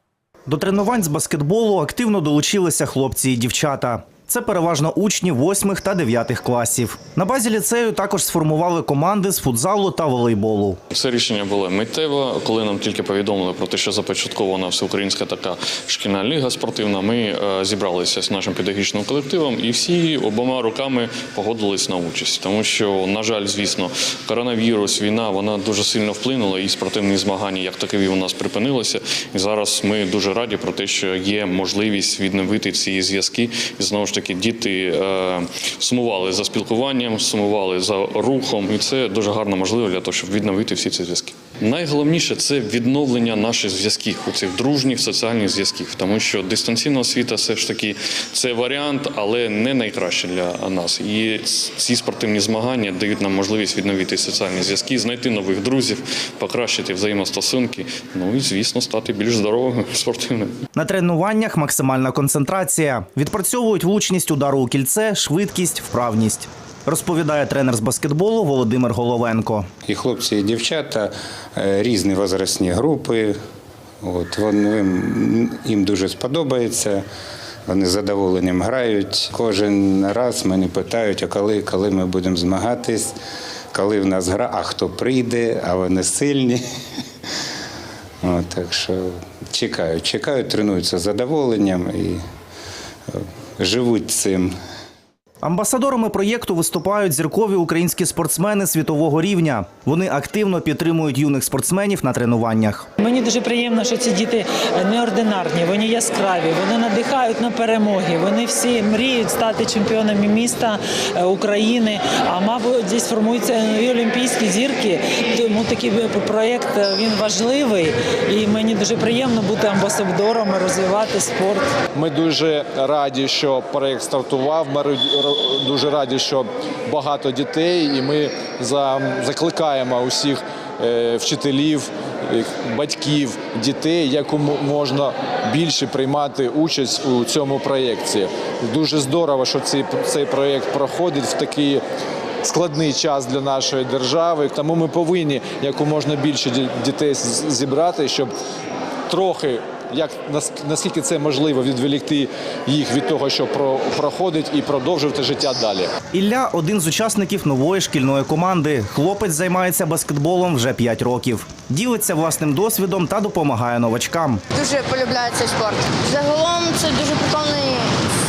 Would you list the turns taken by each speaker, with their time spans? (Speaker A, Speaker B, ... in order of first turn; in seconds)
Speaker A: 0.5-10.8, 60.7-69.7, 95.4-102.9, 156.1-164.4
Speaker B: 10.9-60.5
Speaker C: 69.8-73.4, 74.0-77.0, 77.7-83.2, 83.7-86.6, 88.2-92.2, 93.1-94.6
Speaker D: 103.0-121.7
Speaker E: 121.9-141.8, 142.4-148.3, 149.1-155.9
Speaker F: 164.5-166.9